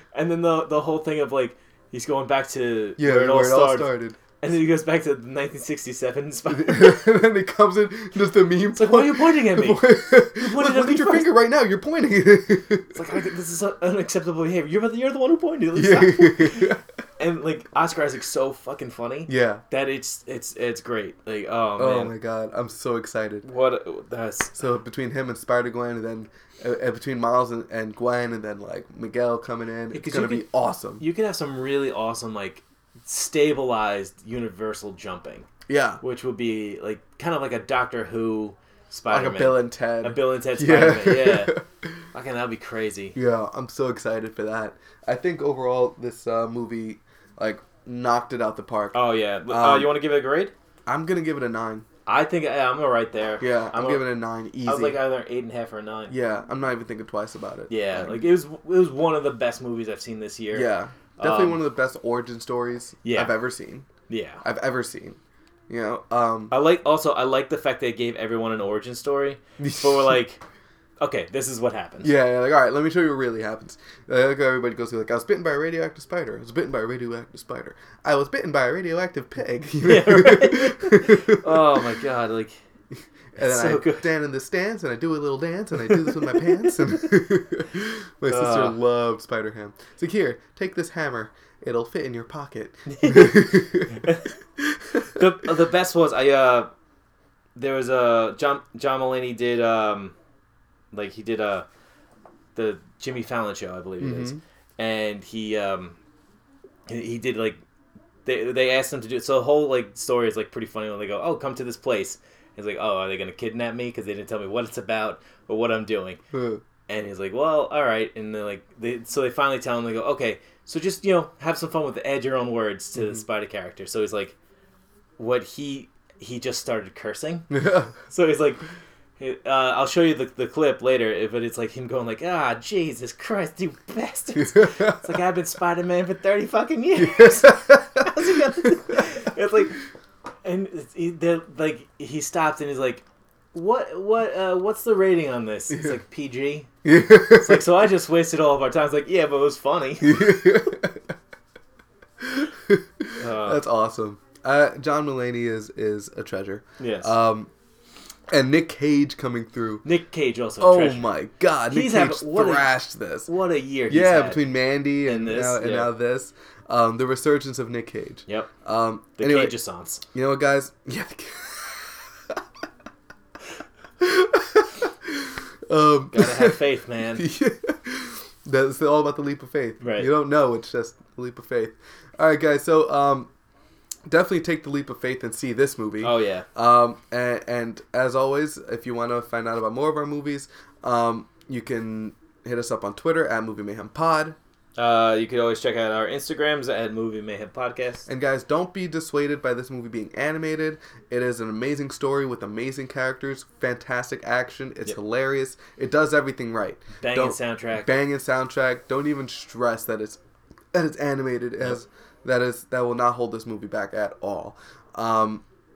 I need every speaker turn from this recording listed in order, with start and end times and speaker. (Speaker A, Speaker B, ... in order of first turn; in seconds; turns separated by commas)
Speaker A: 0.1-7.1, Speaker B: 3.0-4.2, Speaker B: 6.5-12.9, Speaker A: 8.7-11.3, Speaker A: 12.9-22.1, Speaker B: 15.7-16.8, Speaker B: 19.3-19.6, Speaker B: 21.8-23.4, Speaker A: 23.4-24.6, Speaker B: 24.6-31.1, Speaker A: 29.9-30.5, Speaker A: 31.0-35.5, Speaker B: 35.7-36.0, Speaker A: 36.0-41.5, Speaker B: 39.1-41.6, Speaker A: 42.1-43.2, Speaker B: 43.1-50.0, Speaker A: 48.9-50.5, Speaker B: 50.9-51.9, Speaker A: 52.1-54.1, Speaker B: 53.4-55.0, Speaker A: 54.6-56.1, Speaker B: 56.1-58.2, Speaker A: 57.7-61.6, Speaker B: 60.5-63.9, Speaker A: 63.0-63.4, Speaker A: 64.1-64.4, Speaker B: 64.4-65.2, Speaker B: 65.7-66.6, Speaker A: 66.5-70.4, Speaker B: 69.6-70.2, Speaker A: 71.0-72.1, Speaker B: 72.0-81.7, Speaker A: 79.8-82.5, Speaker B: 83.3-95.2, Speaker A: 83.4-84.1, Speaker A: 85.9-87.1, Speaker A: 88.3-88.8, Speaker A: 92.9-94.3, Speaker A: 95.0-96.7, Speaker A: 97.5-100.2, Speaker A: 100.9-101.7, Speaker A: 102.5-106.0, Speaker B: 104.0-104.4, Speaker A: 106.9-107.6, Speaker A: 108.2-116.2, Speaker B: 116.3-116.6, Speaker A: 116.9-124.4, Speaker B: 123.0-123.2, Speaker A: 125.2-127.5, Speaker B: 127.5-128.0, Speaker A: 128.1-128.6, Speaker A: 129.2-139.8, Speaker B: 134.4-135.0, Speaker B: 137.0-139.1, Speaker A: 140.4-146.7, Speaker B: 145.7-146.0, Speaker B: 146.8-147.7, Speaker A: 147.3-150.4, Speaker B: 150.0-151.0, Speaker B: 152.2-157.5, Speaker A: 153.2-153.6, Speaker A: 156.8-157.2, Speaker B: 158.3-159.8, Speaker A: 159.8-161.1, Speaker B: 160.6-163.3, Speaker A: 161.7-162.7, Speaker A: 163.3-164.5, Speaker B: 163.9-169.6, Speaker A: 165.1-165.9, Speaker A: 169.2-170.0, Speaker B: 170.1-172.4, Speaker B: 174.0-183.3, Speaker A: 176.1-177.2, Speaker A: 179.8-180.1, Speaker B: 184.1-194.4, Speaker A: 186.0-186.5, Speaker A: 194.8-198.1, Speaker B: 198.1-210.2, Speaker A: 207.0-207.9, Speaker B: 210.7-215.4